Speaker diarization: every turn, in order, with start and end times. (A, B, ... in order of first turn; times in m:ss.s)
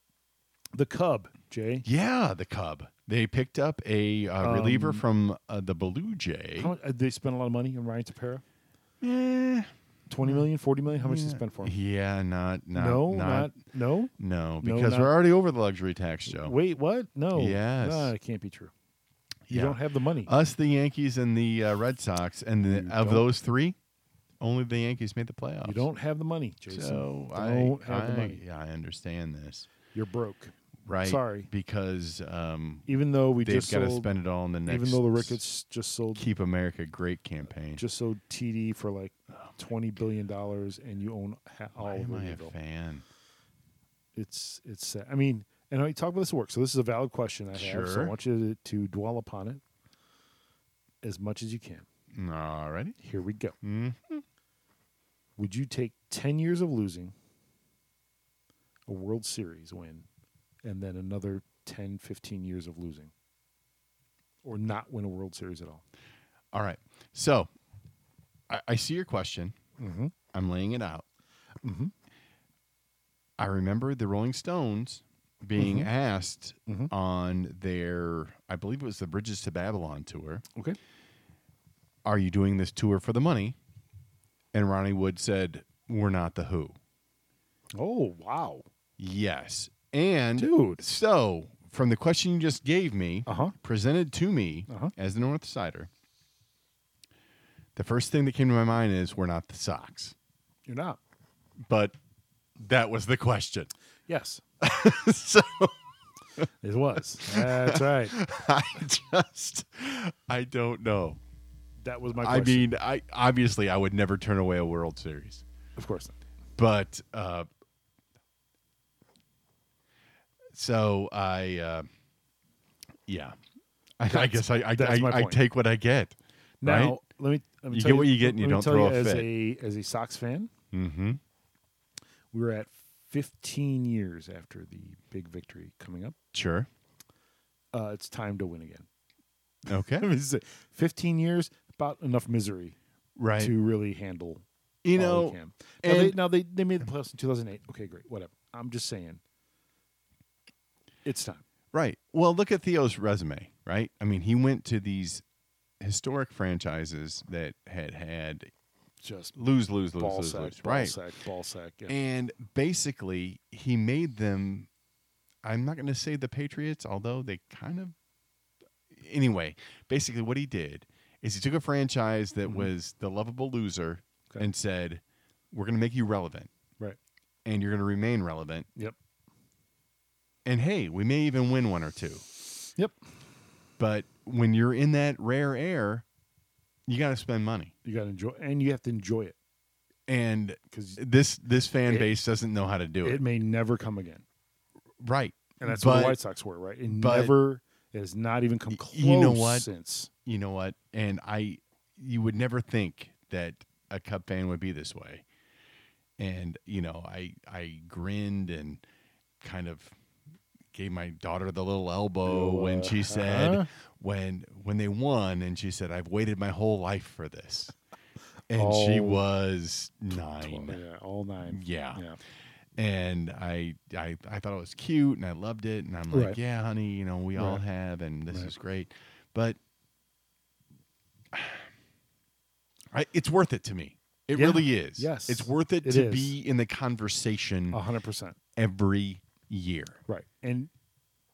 0:00.7-0:01.9 A
0:01.8-0:06.7 B
0:04.4-0:05.0 A
0:06.6-0:08.4 A
0:09.0-0:09.7 B
0:10.1-0:11.8 A
0:10.2-0:13.6 B
0:12.7-0:15.1 A
0:14.2-0:16.6 B
0:16.3-0:18.7 A
0:17.3-0:18.1 B
0:19.5-0:23.8 B
0:19.5-0:20.3 A
0:22.7-0:23.3 A
0:24.4-0:25.9 B
0:25.6-0:28.4 A
0:26.7-0:29.7 B
0:29.9-0:31.5 A
0:30.9-0:32.9 B
0:32.9-0:34.1 A
0:33.4-0:35.4 B
0:34.6-0:36.3 A
0:36.2-0:37.8 B
0:37.8-0:42.6 A
0:41.8-0:43.0 B
0:44.2-0:49.6 A
0:47.5-0:48.2 B
0:51.0-0:51.9 A
0:52.1-0:53.0 B
0:53.0-0:53.6 A
0:53.6-0:54.2 B
0:55.4-0:57.1 A
0:58.9-1:00.1 A
1:00.6-1:03.1 A
1:04.4-1:05.8 A
1:06.5-1:07.5 B
1:08.5-1:09.6 B
1:09.8-1:10.1 A
1:10.3-1:11.1 B
1:11.6-1:11.9 A
1:13.4-1:20.4 B
1:15.6-1:15.9 A
1:16.7-1:16.9 A
1:22.0-1:23.6 B
1:24.5-1:26.8 B
1:27.8-1:28.6 A
1:29.0-1:35.9 B
1:30.4-1:30.8 A
1:33.3-1:33.6 A
1:34.7-1:34.9 A
1:37.8-1:40.2 B
1:40.7-1:41.0 A
1:41.6-1:42.0 B
1:42.6-1:43.7 B
1:44.1-1:44.4 A
1:44.6-1:45.8 B
1:46.6-1:48.2 A
1:47.2-1:51.2 B
1:51.8-1:52.7 A
1:52.2-1:55.4 B
1:55.8-1:56.2 A
1:56.6-1:57.5 B
2:00.5-2:01.9 B
2:03.1-2:03.4 B
2:04.0-2:07.0 B
2:04.1-2:05.4 A
2:06.6-2:10.5 A
2:07.7-2:09.3 B
2:10.7-2:11.2 B
2:12.3-2:16.2 A
2:16.3-2:16.7 B
2:17.7-2:18.9 A
2:19.7-2:22.8 A
2:19.7-2:20.1 B
2:23.2-2:23.5 B
2:23.4-2:24.4 A
2:24.8-2:26.2 B
2:25.0-2:29.2 A
2:31.0-2:31.4 A
2:31.7-2:35.2 B
2:35.8-2:38.5 B
2:39.0-2:39.4 A
2:39.4-2:41.0 B
2:40.0-2:42.0 A
2:41.9-2:44.7 B
2:45.4-2:48.0 B
2:48.9-2:56.5 B
2:52.4-2:52.7 A
2:57.4-2:58.7 B
3:00.4-3:02.2 B
3:03.8-3:06.0 B
3:06.9-3:07.7 B
3:07.8-3:09.4 A
3:10.1-3:13.2 B
3:10.7-3:11.0 A
3:13.0-3:14.2 A
3:15.0-3:16.2 B
3:15.6-3:20.1 A
3:16.9-3:17.3 B
3:18.7-3:19.7 B
3:20.2-3:25.2 B
3:26.2-3:28.8 B
3:29.4-3:30.0 B
3:30.7-3:37.7 B
3:32.2-3:33.7 A
3:38.5-3:40.8 B
3:38.6-3:39.2 A
3:40.4-3:42.2 A
3:41.4-3:42.0 B
3:42.8-3:49.6 B
3:46.1-3:46.4 A
3:47.4-3:47.6 A
3:51.3-3:51.7 B
3:52.9-3:57.8 B
3:54.3-3:56.4 A
3:57.7-3:58.4 A
3:58.6-4:00.0 B
4:00.1-4:00.7 A